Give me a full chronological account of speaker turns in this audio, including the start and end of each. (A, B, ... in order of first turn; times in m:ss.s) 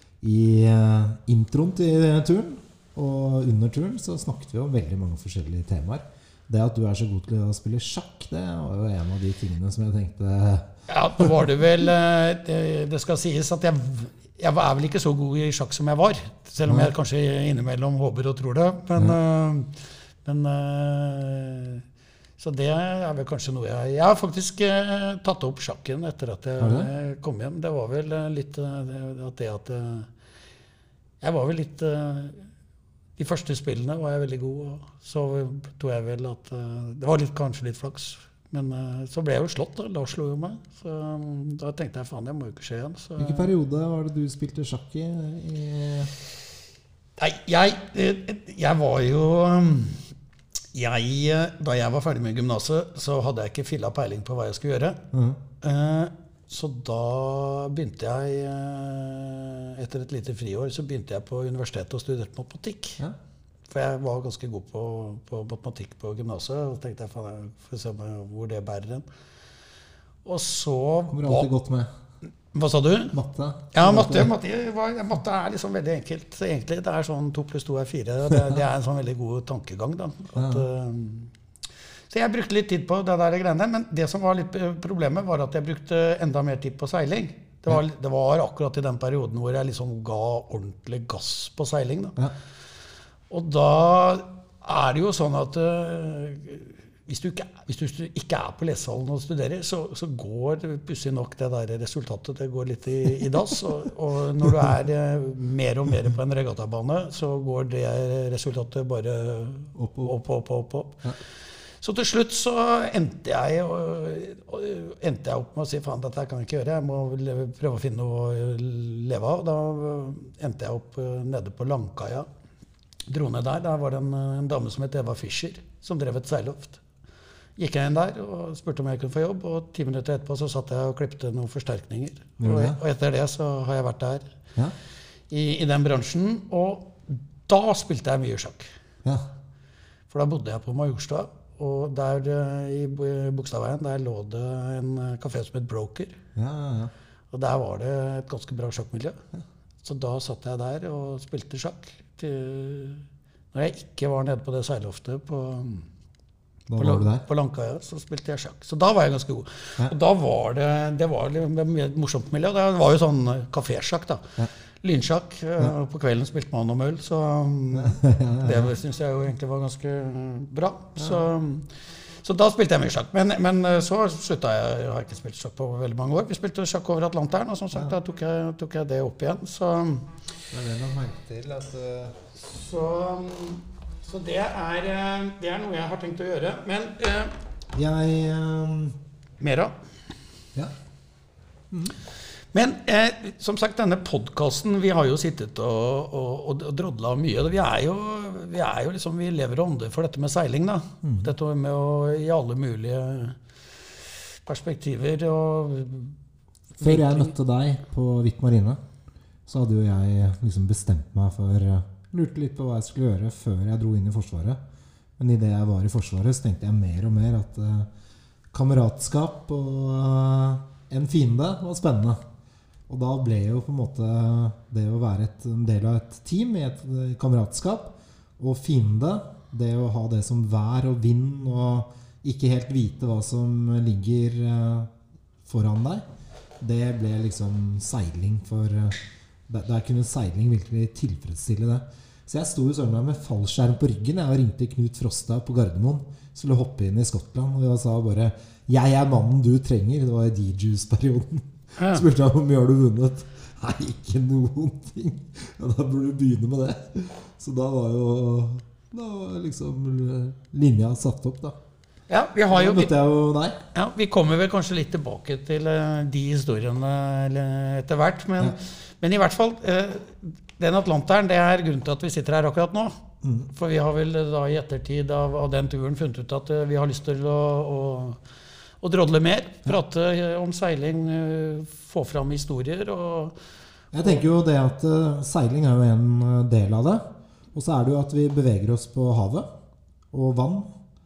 0:00.2-0:11.4 A
0:10.9-0:21.8 B
0:16.6-0:16.9 A
0:22.4-0:30.1 B
0:26.6-0:26.9 A
0:31.2-0:32.4 B
0:33.2-0:43.5 B
0:43.2-0:46.1 A
0:47.2-0:50.0 B
0:50.7-0:55.0 B
0:55.1-0:55.4 A
0:55.6-1:03.0 B
1:03.7-1:09.0 B
1:10.2-1:11.5 B
1:11.1-1:11.9 A
1:12.5-1:13.2 B
1:13.1-1:14.3 A
1:13.7-1:21.3 B
1:20.3-1:20.6 A
1:22.1-1:32.2 B
1:33.3-1:51.0 B
1:49.8-1:50.1 A
1:51.8-2:02.3 B
2:03.1-2:06.8 B
2:07.6-2:14.3 B
2:12.4-2:12.8 A
2:15.3-2:18.7 B
2:20.1-2:26.1 B
2:26.4-2:26.9 A
2:27.3-2:29.2 B
2:29.8-2:35.8 B
2:36.7-2:37.2 A
2:36.8-3:00.1 B
2:47.7-2:48.7 A
2:51.0-2:51.3 A
3:00.5-3:02.2 A
3:02.3-3:07.3 B
3:07.7-3:09.0 A
3:09.4-3:09.7 B
3:11.7-3:12.0 A
3:12.5-3:23.4 B
3:21.0-3:21.3 A
3:24.4-3:26.2 B
3:26.8-3:27.3 B
3:26.8-3:28.8 A
3:29.5-3:34.6 A
3:35.2-3:37.9 A
3:38.5-3:42.2 A
3:42.9-3:54.9 A
3:55.4-3:56.0 A
3:56.6-4:21.6 A
4:11.8-4:12.0 B
4:22.1-4:22.9 B
4:22.5-4:23.6 A
4:23.7-4:33.0 B
4:33.2-4:33.5 A
4:33.5-4:38.2 B
4:38.8-4:43.3 B
4:43.9-4:44.2 B
4:43.9-4:49.5 A
4:50.1-4:50.7 A